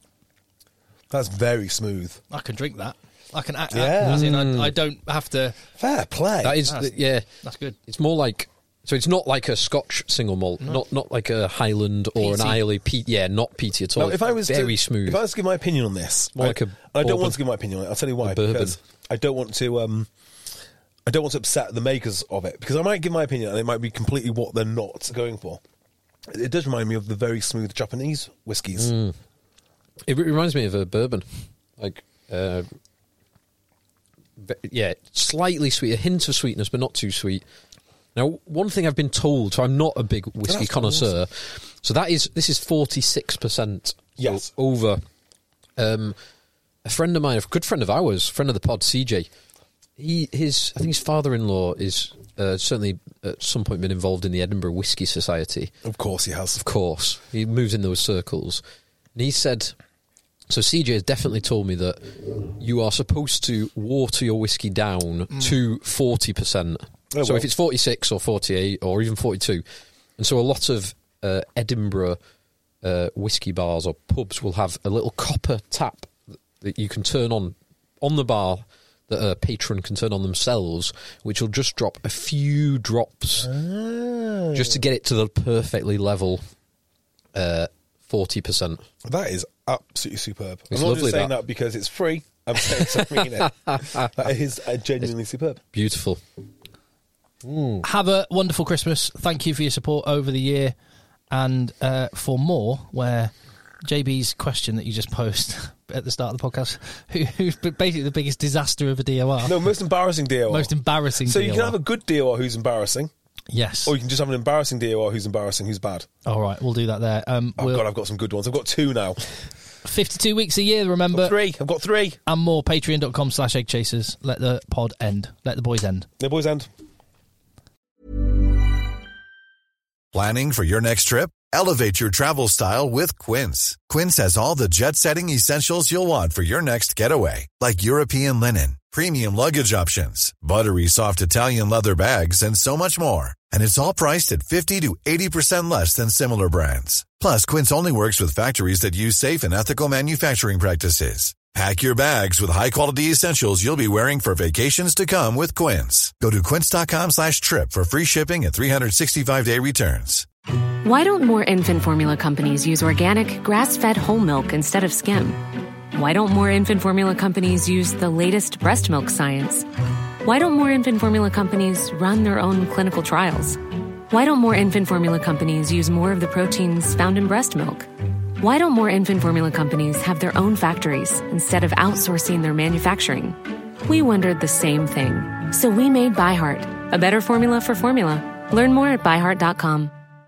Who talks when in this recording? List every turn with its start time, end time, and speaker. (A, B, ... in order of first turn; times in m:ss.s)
0:01.1-0:02.2 A
0:02.3-0:05.6 B
0:03.7-0:04.3 A
0:04.0-0:04.7 C
0:05.8-0:06.6 A
0:06.4-0:07.2 C
0:06.7-0:07.8 B
0:07.9-0:15.2 C
0:12.2-0:12.6 B
0:14.0-0:20.1 A
0:16.4-0:17.4 C
0:18.2-0:18.8 C
0:21.1-0:25.6 A
0:26.3-0:28.9 A
0:28.8-0:29.2 C
0:30.0-0:31.3 C
0:31.8-0:32.7 C
0:34.4-0:37.4 C
0:38.2-0:45.0 C
0:40.5-0:41.1 A
0:44.2-0:44.5 A
0:45.8-0:46.2 C
0:46.8-0:49.3 C
0:50.0-0:55.7 C
0:55.8-0:56.6 A
0:56.6-0:58.6 C
0:59.2-0:59.8 C
1:00.5-1:09.6 C
1:07.1-1:07.5 A
1:10.2-1:12.2 C
1:12.8-1:23.5 C
1:23.4-1:24.8 A
1:24.5-1:26.4 C
1:27.3-1:28.8 C
1:29.0-1:35.6 A
1:30.7-1:31.3 C
1:32.7-1:34.1 C
1:35.7-1:36.2 C
1:37.4-1:37.8 C
1:37.8-1:40.8 B
1:41.3-1:49.6 B
1:49.4-1:53.1 A
1:50.5-1:51.8 B
1:53.5-1:53.9 B
1:53.9-1:56.1 A
1:56.3-1:57.8 B
1:57.6-1:59.2 A
1:59.8-2:01.4 B
2:01.1-2:02.2 A
2:02.3-2:06.1 B
2:06.2-2:06.7 A
2:10.1-2:40.3 D
2:40.8-2:49.7 E
2:50.2-2:53.6 E
2:54.1-3:09.9 E